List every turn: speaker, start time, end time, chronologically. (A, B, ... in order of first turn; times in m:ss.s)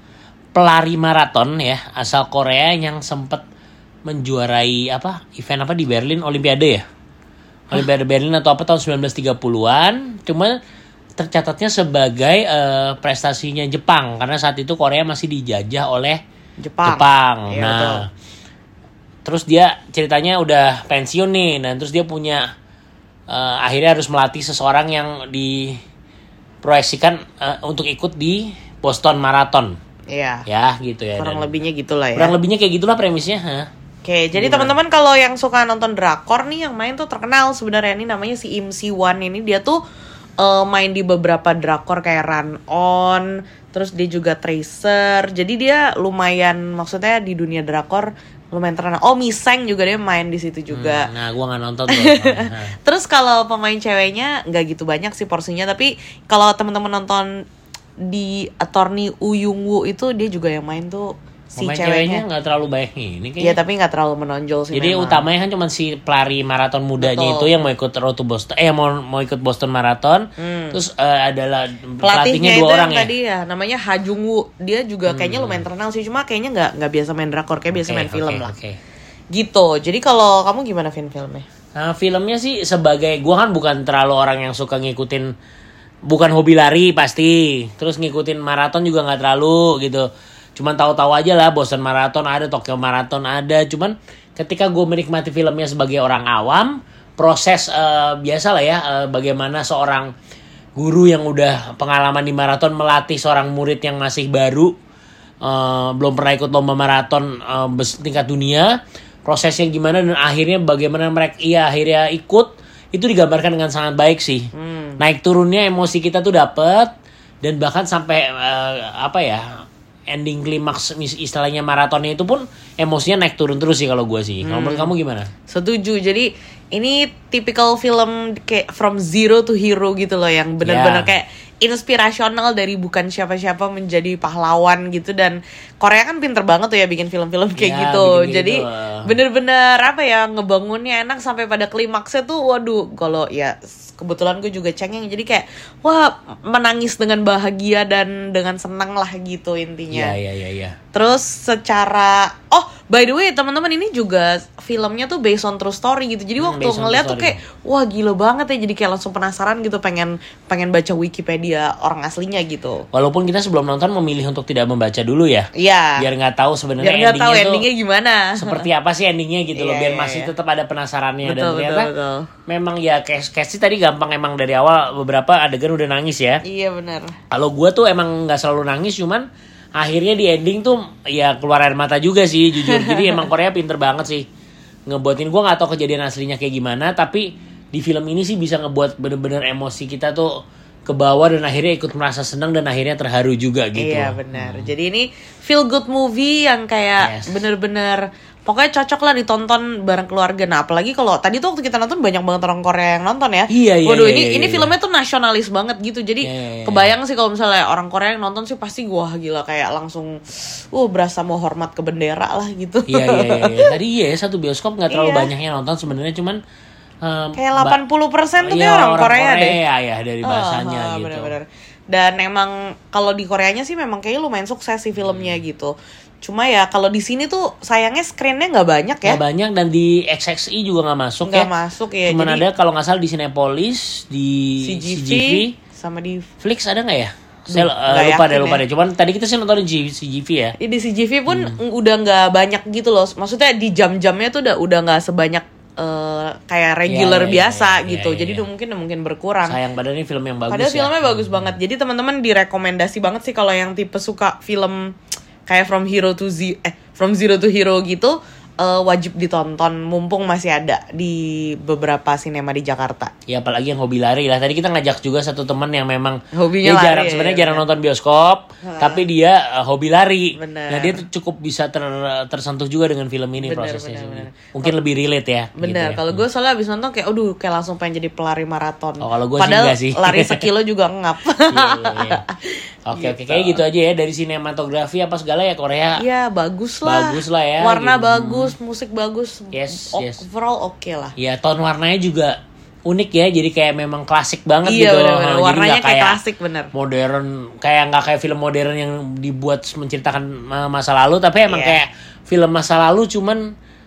0:00.5-0:03.4 A
0:04.1-0:06.8 A
0:07.7-0:10.6 A
0:11.2-0:16.2 A
0:16.6-0:18.0 B
0:16.8-0:18.0 A
0:19.2-0:22.5 A
0:23.3-0:25.8 A
0:26.6-0:29.8 A
0:30.1-0:30.5 B
0:30.5-0:31.5 A
0:31.2-0:32.3 B
0:32.1-0:33.7 A
0:34.0-0:39.8 B
0:34.3-0:34.7 A
0:40.4-0:51.1 B
0:50.7-0:52.8 A
0:51.9-0:57.4 B
0:58.0-1:02.2 B
1:01.6-1:03.6 A
1:03.4-1:05.2 B
1:04.7-1:13.1 A
1:07.0-1:07.5 B
1:10.4-1:10.8 B
1:12.0-1:18.5 B
1:15.1-1:15.7 A
1:17.7-1:18.8 A
1:19.3-1:21.4 B
1:21.8-1:25.3 A
1:26.1-1:40.1 A
1:40.8-1:44.7 A
1:45.4-2:05.3 A
1:54.6-1:55.0 B
2:04.4-2:04.9 B
2:05.5-2:30.2 B
2:10.6-2:11.1 A
2:17.6-2:19.1 A
2:29.9-2:30.8 A
2:30.9-2:42.8 B
2:36.4-2:37.4 A
2:42.9-2:47.6 A
2:45.6-2:46.1 B
2:46.8-2:48.6 B
2:48.4-2:51.9 A
2:49.6-2:50.3 B
2:51.2-2:52.3 B
2:52.5-2:56.4 A
2:56.4-2:57.2 B
2:57.3-3:04.2 A
3:02.6-3:03.3 B
3:04.9-3:14.7 A
3:13.8-3:33.7 B
3:17.0-3:17.4 A
3:23.5-3:24.7 A
3:26.2-3:26.9 A
3:32.9-3:36.4 A
3:34.9-3:35.3 B
3:37.0-3:37.8 A
3:37.4-3:39.6 B
3:38.4-3:41.4 A
3:40.2-3:49.2 B
3:45.0-3:45.4 A
3:49.0-3:51.5 A
3:51.2-3:52.5 B
3:52.0-3:55.6 A
3:54.6-3:56.3 B
3:56.4-4:00.6 A
3:57.5-3:58.6 B
4:00.6-4:09.6 B
4:01.3-4:01.6 A
4:06.9-4:08.4 A
4:09.4-4:11.6 A
4:10.5-4:14.9 B
4:15.5-4:23.1 B
4:23.3-4:36.2 A
4:26.3-4:27.6 B
4:28.6-4:29.0 B
4:30.4-4:31.0 B
4:33.4-4:34.8 B
4:35.6-4:43.6 B
4:39.0-4:40.4 A
4:41.5-4:42.2 A
4:42.9-4:46.0 A
4:46.0-4:51.1 B
4:46.8-4:48.5 A
4:49.5-4:50.2 A
4:51.2-4:56.2 A
4:54.6-4:56.7 B
4:56.7-5:03.4 A
5:01.5-5:01.8 B